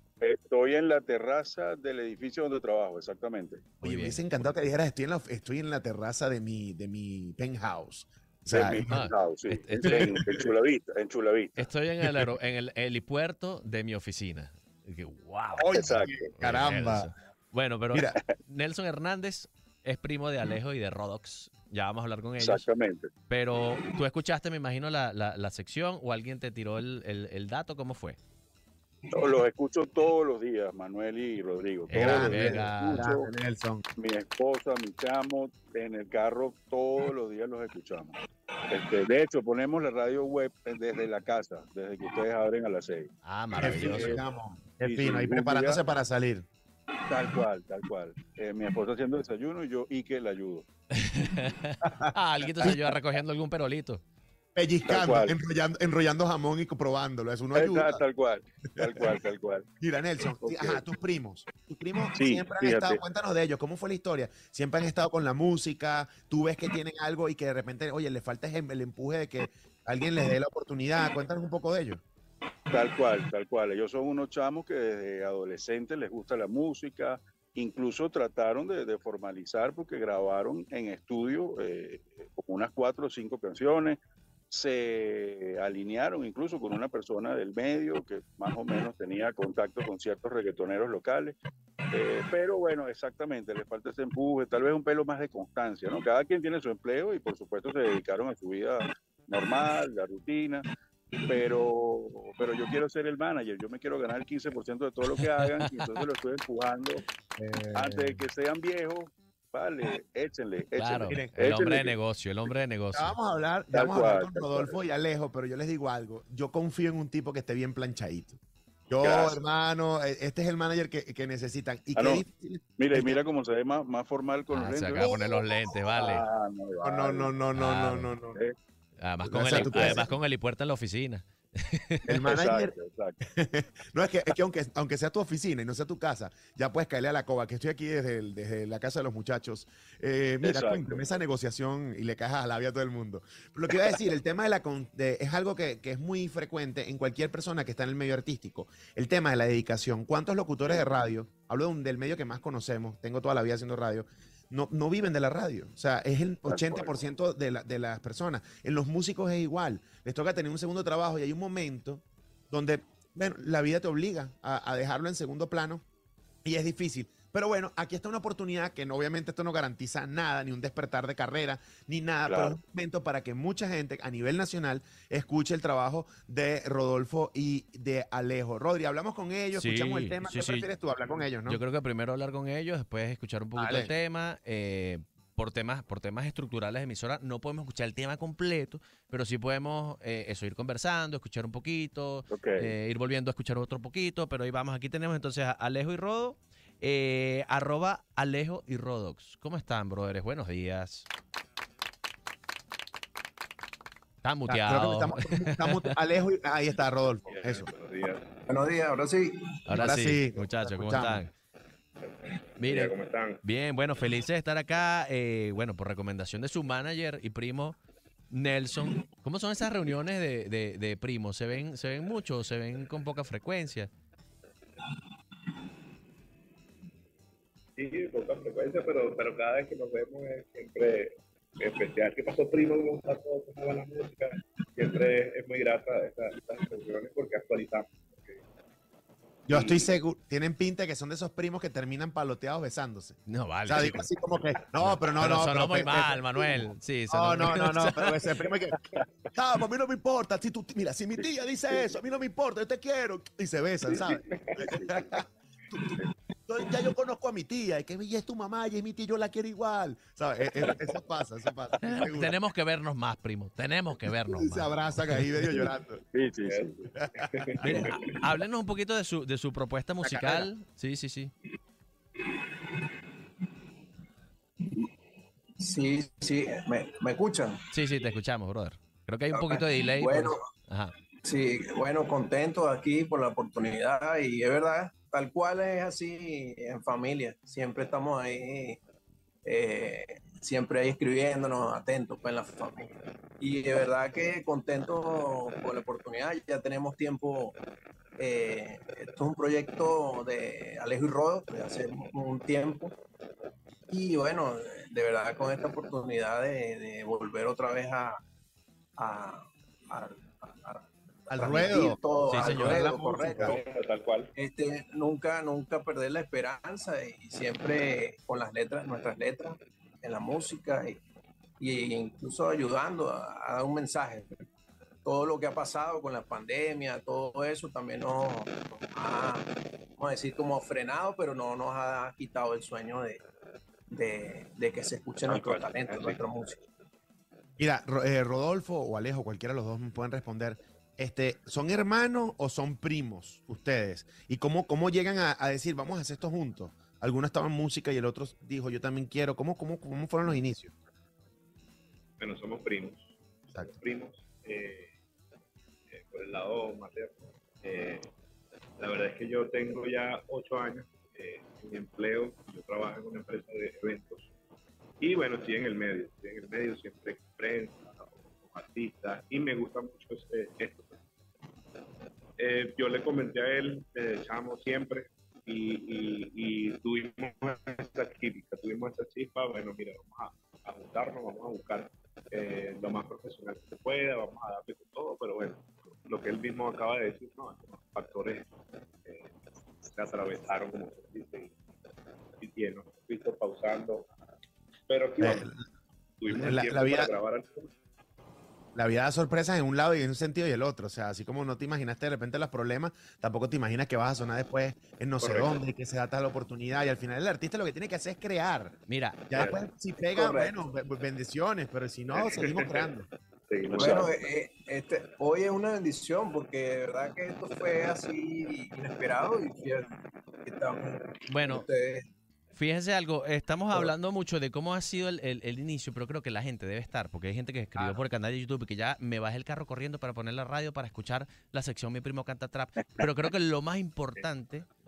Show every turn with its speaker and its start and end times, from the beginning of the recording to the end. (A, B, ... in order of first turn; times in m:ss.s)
0:00.2-0:03.6 A
0:03.8-0:04.5 B
0:03.8-0:09.1 C
0:08.5-0:11.7 A
0:08.6-0:10.2 B
0:09.8-0:10.2 C
0:11.6-0:22.6 B
0:15.6-0:17.1 C
0:15.7-0:16.1 A
0:17.9-0:18.2 C
0:22.4-0:23.1 A
0:23.3-0:28.2 B
0:29.1-0:33.3 A
0:31.9-0:33.0 B
0:31.9-0:33.8 C
0:34.0-0:38.2 A
0:38.7-0:44.2 A
0:43.2-0:44.2 B
0:43.6-0:46.4 C
0:44.8-0:45.8 A
0:47.1-0:50.7 A
0:51.0-0:54.0 B
0:51.8-0:52.8 C
0:54.5-0:58.0 C
0:54.8-0:55.4 A
0:57.5-0:59.7 A
0:59.8-1:12.0 C
1:00.4-1:00.8 A
1:02.1-1:03.0 A
1:12.7-1:31.4 A
1:31.9-1:40.6 A
1:41.2-1:47.0 A
1:47.4-1:48.2 C
1:47.7-1:52.0 A
1:50.8-1:53.2 B
1:52.9-1:58.4 C
1:53.7-1:54.8 A
1:58.9-2:03.2 C
1:59.0-1:59.4 A
2:02.0-2:02.2 A
2:02.8-2:07.4 A
2:04.5-2:06.2 B
2:06.8-2:08.4 C
2:07.5-2:08.1 B
2:09.0-2:12.1 B
2:09.2-2:10.1 C
2:09.4-2:10.0 A
2:12.1-2:45.8 C
2:12.3-2:13.2 A
2:20.4-2:21.0 A
2:30.6-2:30.9 A
2:36.4-2:37.0 A
2:46.4-3:01.6 C
2:52.2-2:52.6 A
2:59.5-3:00.7 B
3:01.4-3:21.1 B
3:03.6-3:03.9 C
3:12.3-3:12.7 A
3:24.2-3:25.8 B
3:24.5-3:27.7 C
3:27.2-3:28.4 D
3:28.5-3:29.6 E
3:29.6-3:31.3 B
3:29.7-3:31.2 C
3:32.0-3:33.4 D
3:32.6-3:37.8 B
3:38.3-3:43.9 B
3:47.8-3:58.4 D
3:59.5-3:59.9 D
3:59.5-4:08.8 C
4:03.3-4:04.1 B
4:04.8-4:08.1 B
4:09.3-4:22.4 C
4:11.2-4:11.9 A
4:13.9-4:14.7 D
4:14.7-4:15.0 A
4:21.8-4:25.2 B
4:24.3-4:26.0 C
4:25.5-4:26.8 A
4:26.4-4:28.1 D
4:27.0-4:27.8 C
4:27.6-4:31.3 B
4:27.7-4:28.0 E
4:30.0-4:30.5 C
4:32.2-4:32.7 E
4:34.6-4:34.9 E
4:35.6-4:37.7 E
4:37.7-4:40.9 B
4:39.3-4:40.4 E
4:41.2-4:48.8 E
4:49.4-4:57.6 E
4:58.2-5:02.9 E
5:03.9-5:08.2 E
5:09.0-5:13.6 E
5:11.3-5:13.6 C
5:12.2-5:12.8 B
5:12.7-5:14.3 D
5:14.4-5:21.0 E
5:21.6-5:24.3 E
5:25.0-5:33.2 E
5:33.9-5:36.6 E
5:35.2-5:36.2 D
5:37.6-5:50.7 C
5:52.2-5:54.9 D
5:55.9-5:58.1 D
5:58.8-6:04.3 D
6:05.0-6:11.0 D
6:12.4-6:28.5 D
6:29.0-6:29.3 D
6:29.8-6:31.6 D
6:32.4-6:34.1 D
6:34.9-6:35.5 D
6:35.2-6:35.6 C
6:36.2-6:37.7 D
6:36.3-6:37.1 C
6:38.7-6:48.8 C
6:45.2-6:45.6 D
6:48.9-6:49.2 B
6:49.3-6:53.1 C
6:49.3-6:49.6 D
6:50.0-6:50.6 E
6:52.1-6:52.9 D
6:53.5-6:54.2 D
6:53.8-6:59.9 E
7:00.4-7:02.0 E
7:01.3-7:01.7 B
7:02.5-7:14.7 B